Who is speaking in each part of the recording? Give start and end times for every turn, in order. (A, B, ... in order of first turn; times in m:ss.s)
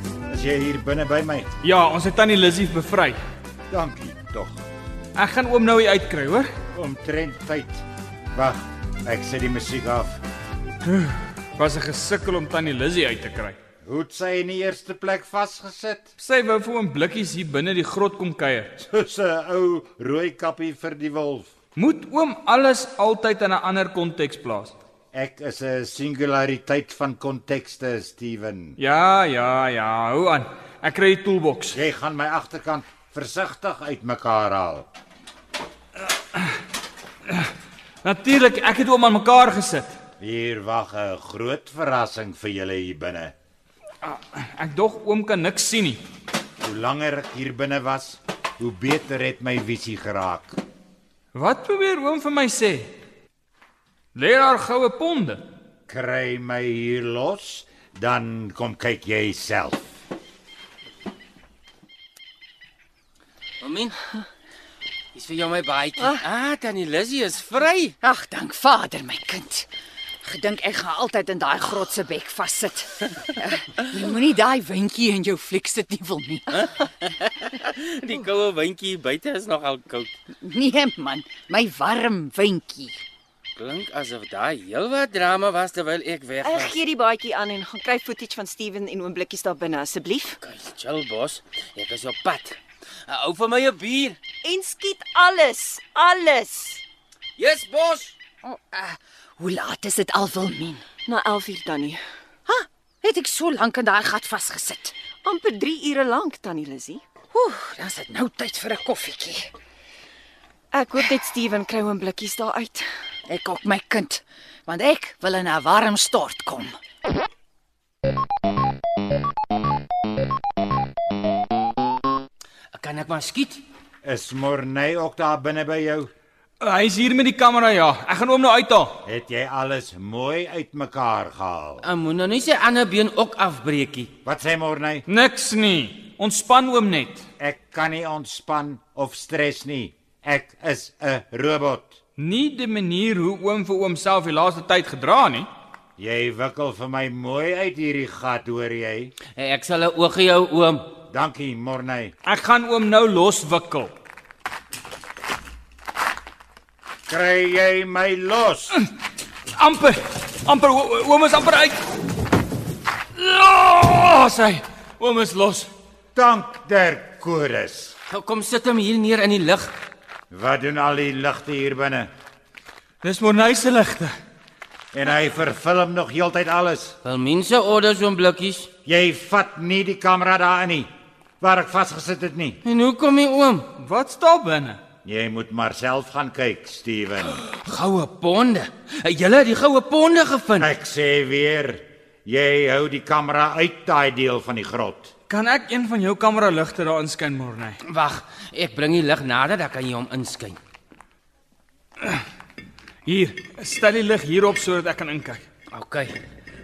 0:00.3-0:01.5 A
0:01.6-0:03.2 B
0:03.7-0:04.6 A
0:05.1-0:06.5 B
0:06.7-0:10.2 A
0:10.8-0:13.6 B
0:13.8-0:16.1 A
0:16.2-0:18.9 B
0:18.9-0:21.5 A
0:21.8-0:24.7 B
0:25.1-0:28.8 A
0:28.8-0:31.8 B
0:31.7-0:34.9 A
0:38.0-0:39.9 B
0:40.2-0:43.3 A
0:44.0-0:46.0 B
0:46.6-0:50.6 A
0:51.3-0:52.9 B
0:54.1-0:55.4 B
0:55.9-0:59.9 A
1:03.6-1:04.0 C
1:05.1-1:07.9 C
1:08.0-1:09.7 D
1:10.2-1:16.7 D
1:16.5-1:20.1 C
1:20.4-1:23.0 D
1:23.6-1:26.8 C
1:26.4-1:30.4 E
1:30.4-1:34.2 C
1:34.4-1:36.8 E
1:37.4-1:38.1 C
1:38.4-1:40.8 D
1:41.0-1:42.0 E
1:42.5-1:44.9 D
1:45.2-1:47.0 E
1:47.3-1:49.5 D
1:50.7-1:52.8 E
1:53.3-1:56.7 D
2:02.7-2:03.6 C
2:04.0-2:06.1 A
2:06.6-2:09.0 B
2:09.0-2:11.8 A
2:11.8-2:14.1 C
2:14.2-2:15.0 A
2:15.1-2:17.2 B
2:17.4-2:22.0 A
2:22.2-2:25.5 B
2:26.0-2:29.1 A
2:29.4-2:31.0 C
2:31.1-2:32.1 A
2:32.2-2:33.9 B
2:37.1-2:38.8 A
2:39.5-2:41.8 B
2:43.1-2:45.7 B
2:46.1-2:47.9 A
2:48.1-2:49.7 C
2:50.3-2:52.1 A
2:53.0-2:54.1 B
2:54.9-2:57.0 A
2:57.0-2:58.7 C
2:58.8-3:02.6 A
3:02.6-3:03.7 C
3:03.8-3:04.8 B
3:05.0-3:07.4 A
3:07.4-3:10.7 C
3:10.6-3:15.1 A
3:15.3-3:17.8 B
3:17.8-3:20.6 C
3:23.0-3:25.4 B
3:25.7-3:26.2 C